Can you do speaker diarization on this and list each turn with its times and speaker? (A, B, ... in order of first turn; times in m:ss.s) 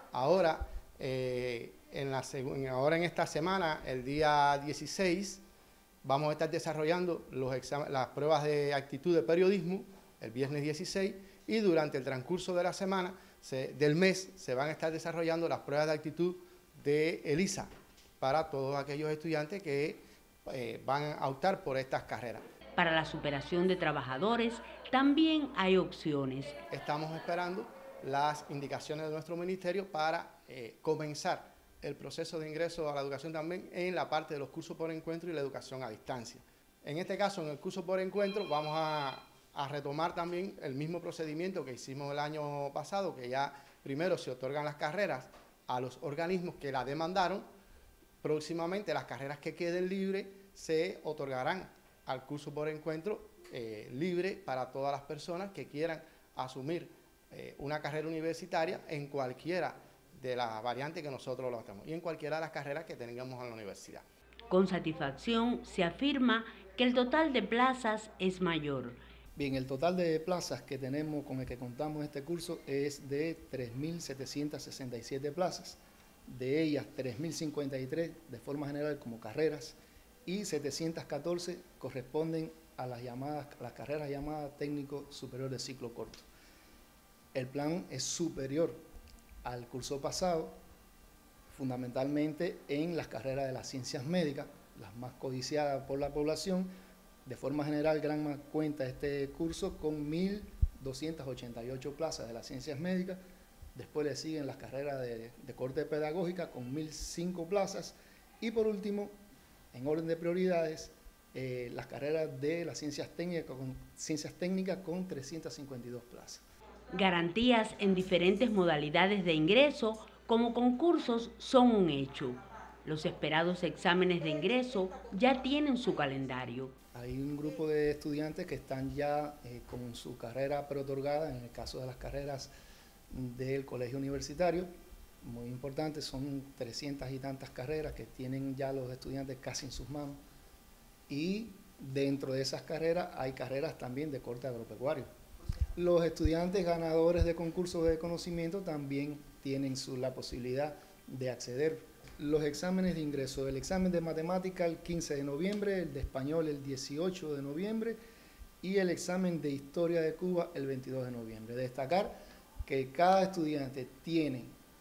0:00.1-0:05.4 A
0:06.0-0:22.4 A
0:22.8-0:26.6 B
0:26.7-0:47.5 A
0:48.2-1:04.0 A
1:04.5-1:09.0 B
1:09.4-1:26.3 C
1:27.3-1:28.8 C
1:29.4-1:30.6 C
1:31.5-1:36.7 C
1:37.2-1:43.2 C
1:43.8-1:49.1 C
1:49.7-1:56.4 C
1:56.9-2:06.8 B
2:06.9-2:12.5 C
2:13.1-2:14.7 C
2:15.2-2:20.2 C
2:21.1-2:25.1 C
2:25.8-2:38.0 C
2:38.6-2:42.1 C
2:42.6-2:44.5 C